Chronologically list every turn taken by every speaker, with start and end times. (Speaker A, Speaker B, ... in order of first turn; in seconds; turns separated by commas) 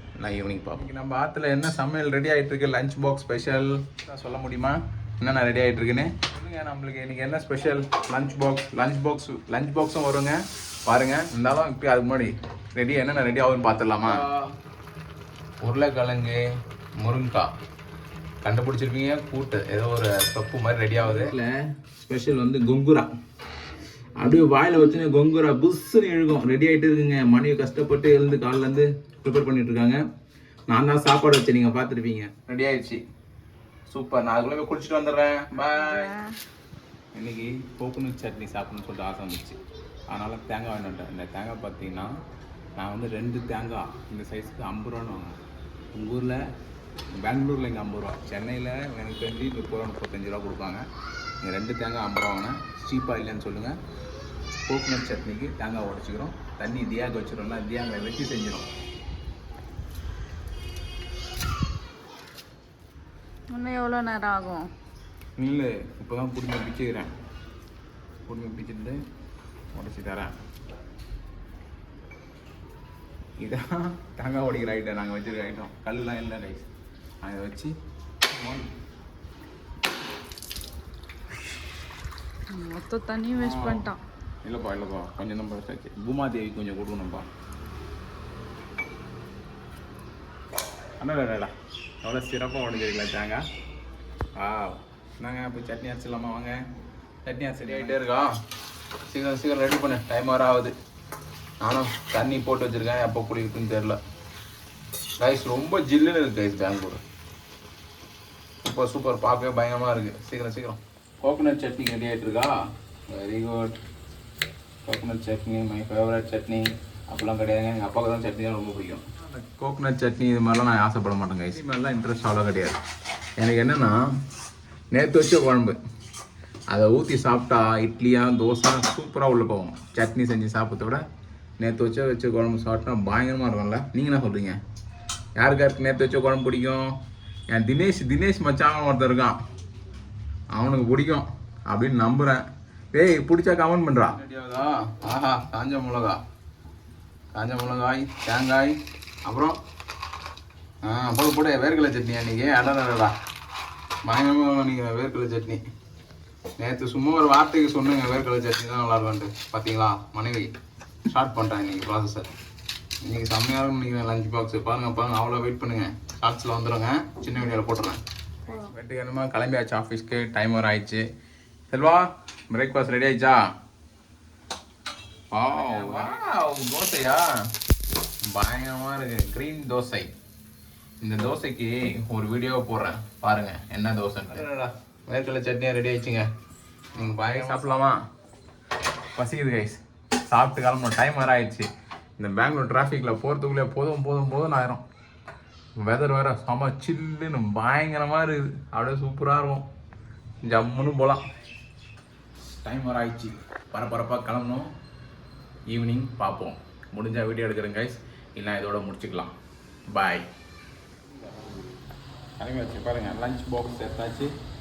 Speaker A: 0.2-14.5, Speaker A: 15.6-16.4, Speaker A: 17.0-17.5, Speaker A: 18.4-23.1, Speaker A: 24.2-30.0, Speaker A: 30.7-33.0, Speaker A: 33.9-36.1, Speaker B: 35.8-36.4, Speaker A: 37.1-39.6, Speaker A: 40.1-42.2, Speaker A: 42.8-45.4, Speaker A: 45.9-46.5, Speaker A: 47.1-50.9, Speaker A: 51.4-53.8, Speaker A: 54.7-58.7, Speaker B: 63.5-64.7, Speaker A: 65.4-67.1, Speaker A: 68.3-69.0, Speaker A: 69.7-70.4, Speaker A: 73.4-76.7, Speaker A: 77.2-77.8, Speaker A: 78.3-78.7, Speaker B: 82.5-84.0, Speaker A: 83.3-83.9, Speaker A: 84.4-87.3, Speaker A: 91.0-93.5, Speaker A: 94.3-96.6, Speaker A: 97.2-98.3, Speaker B: 97.7-97.9, Speaker A: 99.1-100.8, Speaker A: 101.6-104.0, Speaker A: 105.2-107.0, Speaker A: 108.6-112.5, Speaker A: 113.1-113.8, Speaker A: 114.8-122.8, Speaker A: 123.4-124.0, Speaker A: 124.9-125.8, Speaker A: 126.7-131.0, Speaker A: 131.6-134.6, Speaker A: 135.4-136.9, Speaker A: 137.5-139.4, Speaker A: 140.5-146.2, Speaker A: 147.3-149.6, Speaker A: 150.8-153.2, Speaker A: 154.0-155.6, Speaker A: 156.6-160.5, Speaker A: 161.1-162.3, Speaker A: 163.0-171.1, Speaker A: 171.7-173.5, Speaker A: 175.3-177.3, Speaker A: 178.2-180.1, Speaker A: 181.0-186.3, Speaker A: 186.9-188.0, Speaker A: 189.2-194.8, Speaker A: 195.8-199.7, Speaker A: 200.4-201.2, Speaker A: 202.4-204.7, Speaker A: 205.7-209.3, Speaker A: 209.9-210.3, Speaker A: 211.1-211.7, Speaker A: 212.4-214.3